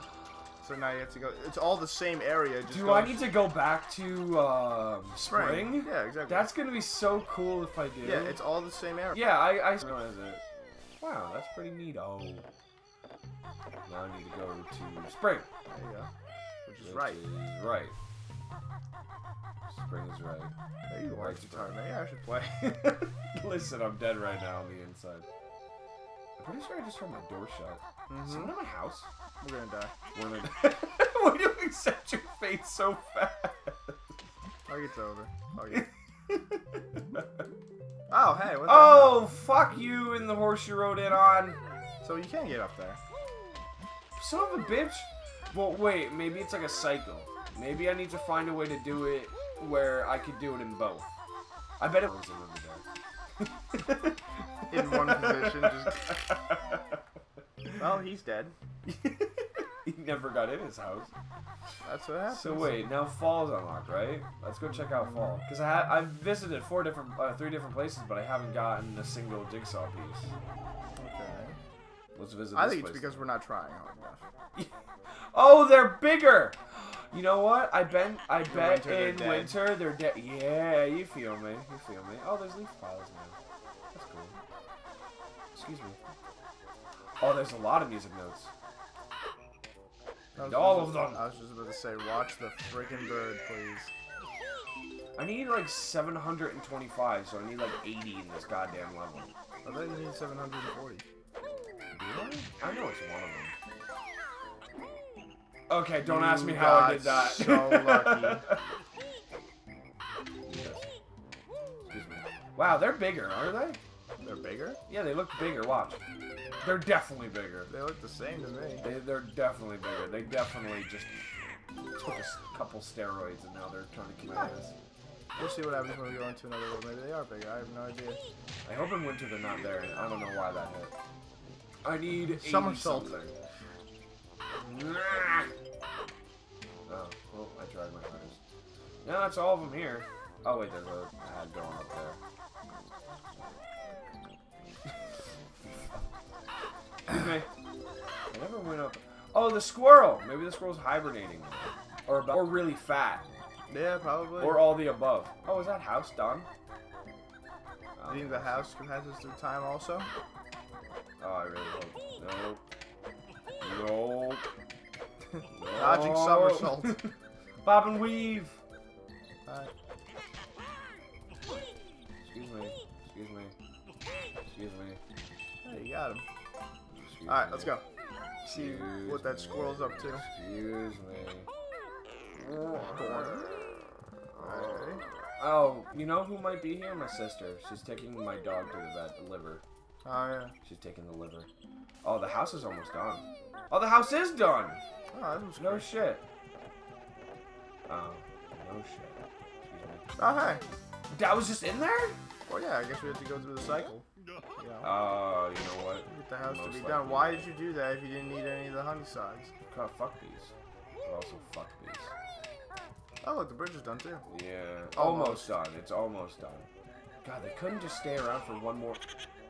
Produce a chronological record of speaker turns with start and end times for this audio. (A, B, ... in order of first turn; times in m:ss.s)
0:00.6-0:03.3 A
0:02.7-0:08.4 B
0:05.3-0:06.5 A
0:08.0-0:09.4 A
0:09.1-0:10.4 B
0:11.0-0:12.4 B
0:13.9-0:15.5 B
0:15.7-0:16.1 A
0:16.7-0:17.2 A
0:16.8-0:18.0 B
0:19.7-0:20.5 B
0:20.9-0:22.7 A
0:21.1-0:21.8 B
0:22.6-0:25.3 B
0:26.4-0:29.1 B
0:28.1-0:28.5 A
0:29.4-0:29.9 A
0:30.1-0:34.0 B
0:34.7-0:35.9 A
0:35.7-0:37.2 B
0:38.1-0:39.3 A
0:38.6-0:41.6 B
0:42.0-0:43.0 A
0:44.2-0:51.1 B
0:51.8-0:52.8 B
0:53.4-0:56.8 B
0:54.7-0:56.0 A
0:57.8-0:58.6 A
0:58.9-1:01.1 B
1:01.8-1:02.8 A
1:02.3-1:10.3 B
1:11.0-1:11.6 A
1:12.2-1:13.3 B
1:12.5-1:14.3 A
1:15.3-1:23.4 B
1:18.4-1:19.6 A
1:23.9-1:24.4 B
1:25.5-1:26.0 B
1:27.2-1:28.5 B
1:30.4-1:33.9 A
1:30.4-1:31.2 B
1:35.2-1:39.3 B
1:39.6-1:41.0 A
1:41.9-1:43.6 B
1:45.7-1:48.6 B
1:46.0-1:48.4 A
1:50.4-1:50.9 B
1:51.9-1:53.8 B
1:54.2-1:54.8 A
1:54.9-1:56.0 B
1:56.6-1:57.7 B
1:57.7-1:58.9 A
1:58.8-2:01.2 B
2:02.0-2:04.7 B
2:05.4-2:08.2 A
2:08.6-2:10.9 B
2:11.8-2:13.4 B
2:12.2-2:13.2 A
2:14.6-2:15.5 B
2:16.9-2:18.4 B
2:19.0-2:22.2 B
2:27.1-2:27.5 B
2:28.3-2:33.2 B
2:33.7-2:34.8 A
2:34.4-2:36.5 B
2:38.0-2:38.7 B
2:38.1-2:40.1 A
2:41.2-2:42.6 B
2:43.6-2:44.5 B
2:45.5-2:47.1 B
2:45.7-2:47.0 A
2:47.6-2:48.6 B
2:49.5-2:49.7 A
2:52.2-2:53.6 B
2:54.5-2:55.0 B
2:55.6-2:56.2 A
2:57.0-2:57.8 B
2:57.3-2:57.8 A
2:58.4-3:00.2 A
2:58.4-3:01.5 B
3:02.4-3:03.9 B
3:02.8-3:03.6 A
3:04.4-3:04.9 B
3:04.4-3:05.0 A
3:05.4-3:09.6 B
3:10.0-3:10.5 A
3:10.6-3:11.5 B
3:12.0-3:14.8 B
3:15.1-3:15.9 A
3:15.6-3:16.2 B
3:17.9-3:20.1 B
3:20.2-3:20.6 A
3:21.1-3:22.2 B
3:22.5-3:24.1 A
3:24.6-3:24.9 A
3:24.8-3:27.5 B
3:26.1-3:29.5 A
3:29.7-3:30.5 B
3:31.0-3:32.1 B
3:33.2-3:34.2 A
3:34.3-3:36.7 B
3:35.0-3:35.5 A
3:37.2-3:39.0 B